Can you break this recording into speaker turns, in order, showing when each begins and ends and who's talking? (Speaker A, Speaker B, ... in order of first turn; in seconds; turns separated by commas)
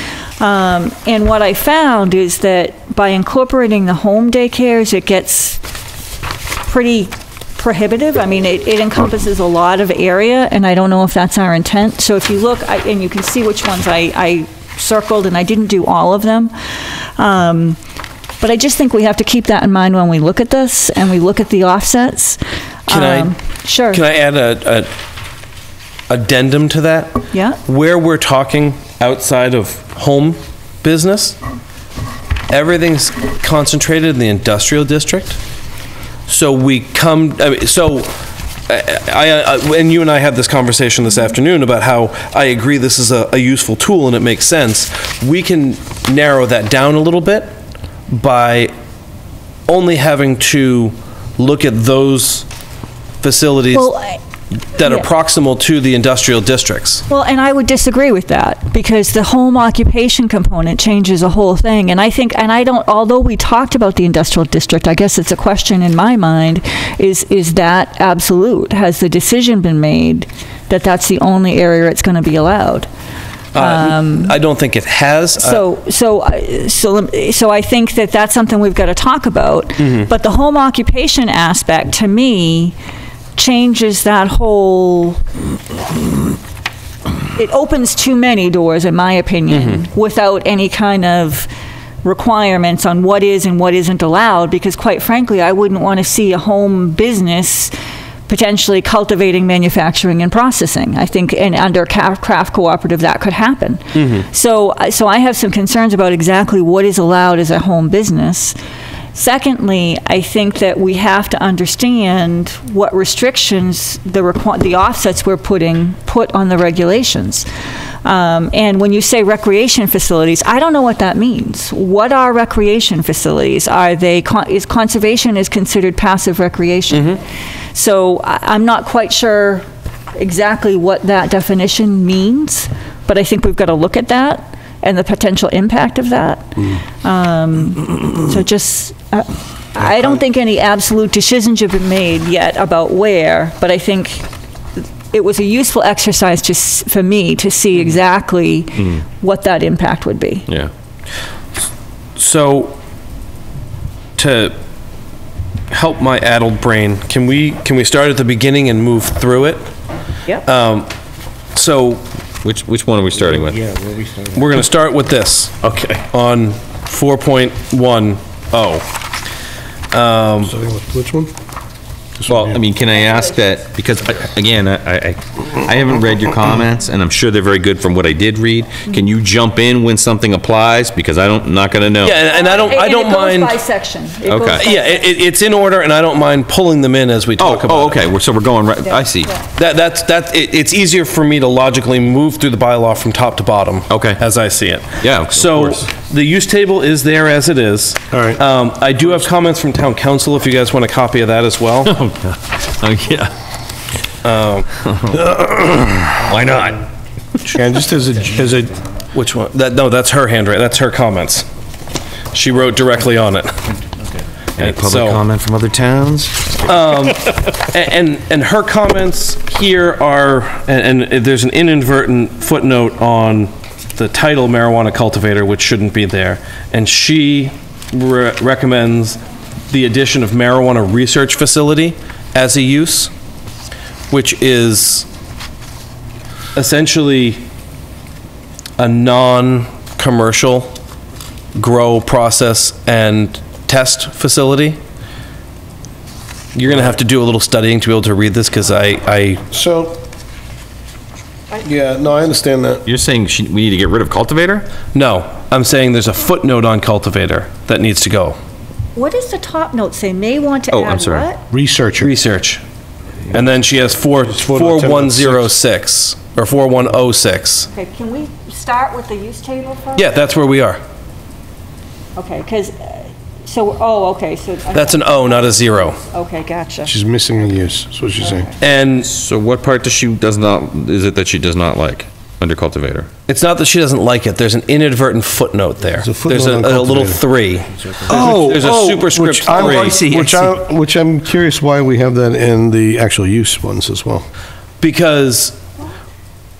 Speaker A: 0.4-5.6, Speaker A: 6.6-17.8, Speaker A: 18.4-24.0, Speaker B: 22.9-23.3, Speaker B: 23.9-24.9, Speaker B: 26.1-31.4, Speaker A: 27.3-27.6, Speaker B: 32.5-35.4, Speaker B: 36.3-38.1, Speaker B: 38.7-47.5, Speaker B: 48.1-48.7, Speaker B: 49.7-52.5, Speaker B: 53.2-53.9, Speaker A: 53.7-54.2, Speaker B: 54.7-57.0, Speaker A: 57.1-72.9, Speaker B: 73.5-75.6, Speaker A: 73.5-74.3, Speaker A: 75.4-82.7, Speaker B: 79.8-80.1, Speaker A: 83.3-85.2, Speaker A: 87.3-91.5, Speaker B: 89.5-89.8, Speaker A: 92.0-97.7, Speaker A: 98.3-108.6, Speaker B: 103.9-104.2, Speaker A: 109.1-117.5, Speaker A: 118.0-127.2, Speaker A: 127.7-129.6, Speaker A: 130.2-144.3, Speaker A: 145.1-150.5, Speaker B: 152.2-152.8, Speaker B: 154.2-154.5, Speaker B: 155.7-159.6, Speaker B: 160.4-160.9, Speaker B: 161.5-162.0, Speaker C: 162.4-163.8, Speaker B: 164.3-168.9, Speaker B: 169.9-170.5, Speaker D: 170.4-171.3, Speaker D: 172.2-172.6, Speaker C: 172.3-182.2, Speaker B: 182.0-183.6, Speaker A: 182.3-185.1, Speaker C: 184.3-184.7, Speaker B: 184.5-188.1, Speaker C: 187.4-189.3, Speaker B: 189.5-201.9, Speaker C: 193.9-194.2, Speaker C: 195.0-195.9, Speaker D: 198.1-198.4, Speaker C: 201.8-203.3, Speaker B: 204.2-204.7, Speaker C: 204.8-206.8, Speaker D: 205.1-205.5, Speaker D: 207.4-208.8, Speaker B: 209.1-211.4, Speaker B: 212.3-213.5, Speaker C: 214.6-216.6, Speaker B: 214.6-215.2, Speaker B: 216.6-233.1, Speaker B: 234.1-235.1, Speaker B: 236.5-237.4, Speaker B: 238.8-240.7, Speaker B: 241.6-244.8, Speaker B: 246.5-249.4, Speaker D: 249.5-250.0, Speaker D: 251.5-252.8, Speaker C: 252.8-254.7, Speaker B: 254.9-258.4, Speaker A: 258.9-261.4, Speaker C: 260.7-261.3, Speaker D: 261.5-262.1, Speaker B: 262.0-262.6, Speaker B: 263.3-267.7, Speaker D: 264.3-265.5, Speaker A: 267.7-270.1, Speaker B: 269.9-270.8, Speaker A: 272.1-276.9, Speaker B: 274.7-276.0, Speaker D: 276.9-278.5, Speaker B: 278.6-279.1, Speaker C: 279.0-283.1, Speaker B: 283.3-290.1, Speaker D: 286.0-287.2, Speaker D: 288.0-294.2, Speaker C: 288.1-290.5, Speaker B: 294.8-295.6